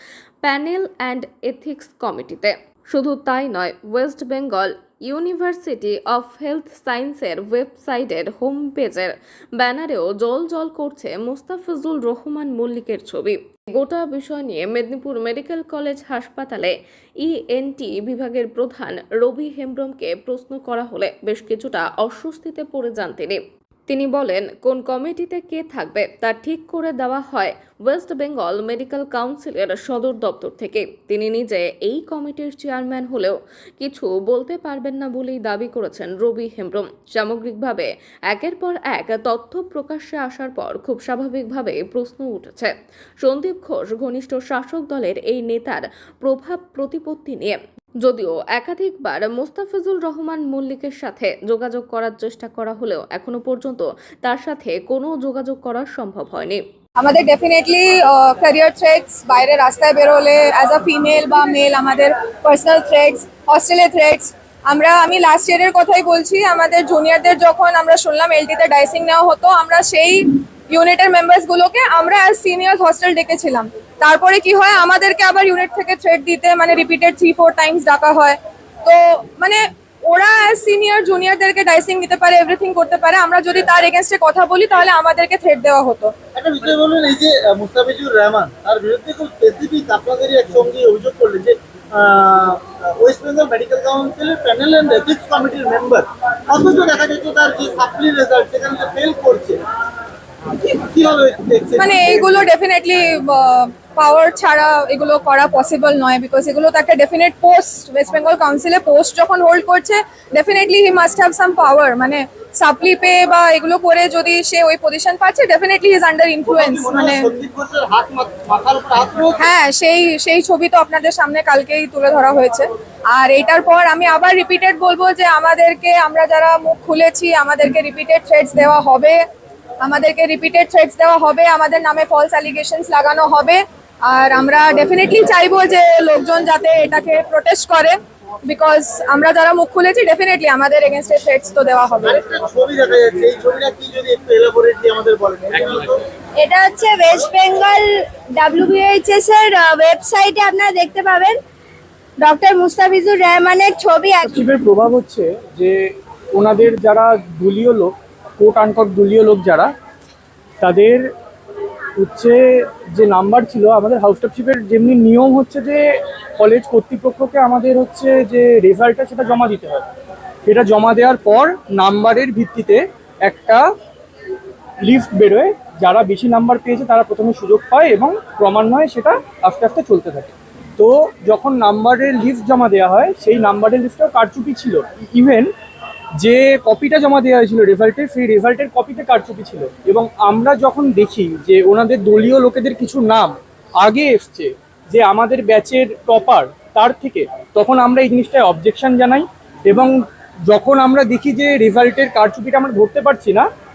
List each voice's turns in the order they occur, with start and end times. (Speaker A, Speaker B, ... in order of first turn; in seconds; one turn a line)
Speaker A: 0.4-56.6
Speaker B: 57.0-86.1
Speaker C: 86.3-99.6
Speaker C: 100.6-102.4
Speaker B: 101.8-117.3
Speaker C: 116.5-119.5
Speaker B: 119.4-129.2
Speaker B: 129.8-142.2
Speaker C: 142.0-146.0
Speaker D: 146.4-151.4
Speaker D: 152.2-154.4
Speaker E: 154.2-159.7
Speaker E: 160.6-161.1
Speaker E: 162.0-169.8
Speaker E: 170.5-173.6
Speaker E: 174.8-185.5
Speaker E: 186.2-203.5